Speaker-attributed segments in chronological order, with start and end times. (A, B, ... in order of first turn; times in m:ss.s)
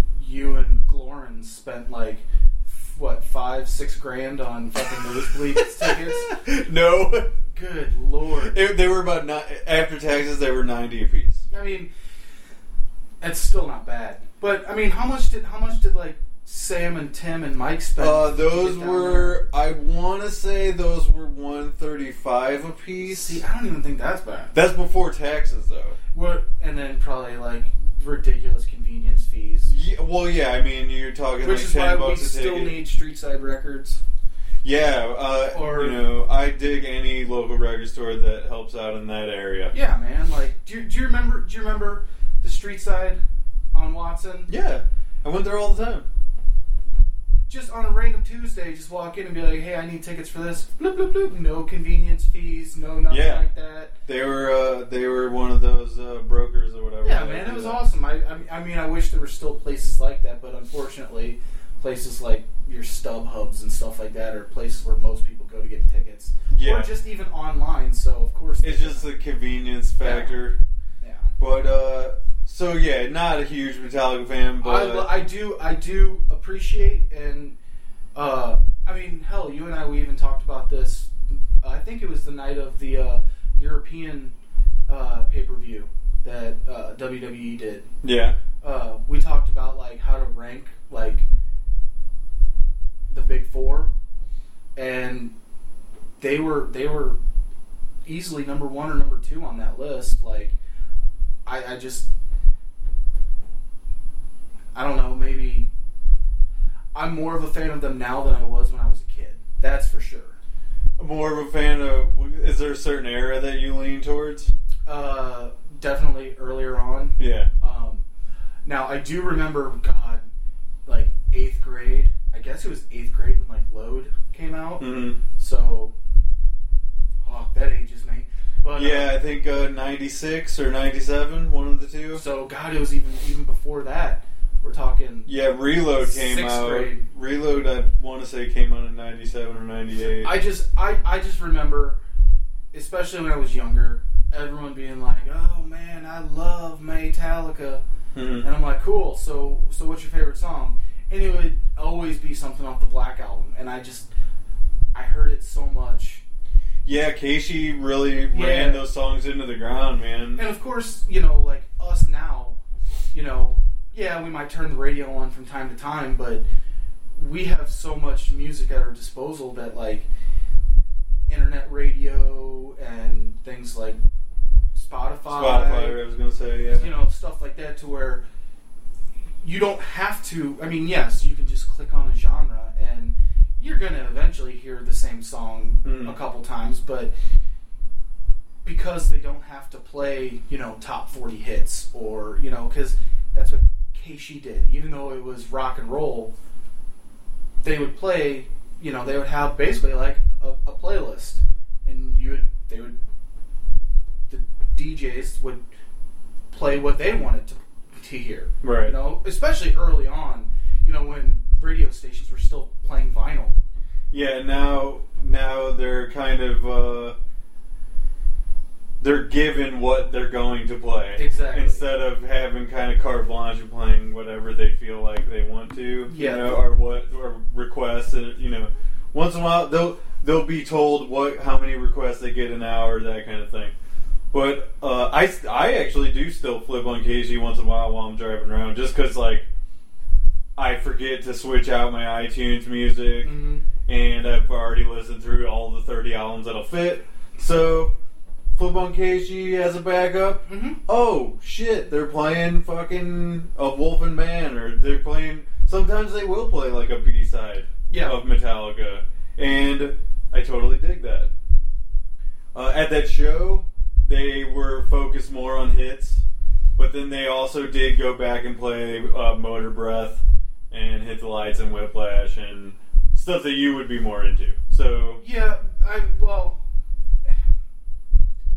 0:00.2-0:06.3 A
0:05.4-0:07.3 B
0:07.5-0:08.6 A
0:08.4-0:11.4 B
0:11.5-0:11.9 A
0:13.2-0:19.4 A
0:18.0-0:23.4 B
0:23.0-0:24.6 A
0:24.5-0:26.0 B
0:26.1-0:29.7 A
0:29.7-0:32.8 B
0:31.4-0:34.0 A
0:34.6-0:39.7 B
0:35.5-0:36.1 A
0:39.7-0:43.2 A
0:43.7-0:44.5 A
0:44.5-0:46.1 B
0:47.5-0:53.9 A
0:53.1-0:53.4 B
0:54.1-0:57.8 B
0:57.0-1:09.1 A
1:06.5-1:06.9 B
1:08.6-1:10.6 B
1:10.0-1:10.4 A
1:11.0-1:11.3 A
1:11.4-1:15.1 B
1:14.6-1:17.6 A
1:18.2-1:24.4 A
1:24.9-1:27.9 A
1:28.0-1:28.4 B
1:28.6-1:31.3 A
1:33.1-1:33.9 A
1:34.8-1:35.3 A
1:36.2-1:37.2 A
1:38.1-1:40.6 A
1:41.5-1:42.1 A
1:44.7-1:45.7 A
1:47.0-1:50.4 A
1:51.0-1:54.5 B
1:54.9-1:58.1 A
1:57.2-1:57.5 B
1:58.6-2:00.2 A
2:00.9-2:05.9 A
2:04.8-2:05.2 B
2:07.2-2:09.2 A
2:08.8-2:12.2 B
2:12.1-2:15.3 A
2:15.3-2:20.3 B
2:15.9-2:17.0 A
2:20.2-2:22.0 A
2:22.7-2:27.8 A
2:28.2-2:28.5 B
2:28.4-2:34.1 A
2:34.9-2:36.2 A
2:36.8-2:40.4 B
2:38.3-2:38.9 A
2:40.4-2:42.6 A
2:43.1-2:46.4 A
2:47.2-2:50.1 A
2:51.3-2:54.0 A
2:54.7-2:56.0 A
2:55.3-2:56.9 B
2:56.7-2:58.2 A
2:59.4-3:07.1 A
3:05.8-3:06.2 B
3:08.6-3:16.3 A
3:17.6-3:23.0 A
3:24.3-3:25.6 A
3:26.5-3:33.6 A
3:28.6-3:28.9 B
3:34.1-3:37.2 B
3:39.0-3:53.7 B
3:41.2-3:41.8 A
3:46.1-3:46.6 A
3:54.3-3:59.5 B
4:00.6-4:03.3 B
4:03.2-4:03.6 A
4:03.8-4:07.9 B
4:08.6-4:21.3 B
4:10.5-4:10.8 A
4:17.9-4:18.2 A
4:22.5-4:26.2 B
4:26.8-4:35.2 B
4:35.2-4:36.6 A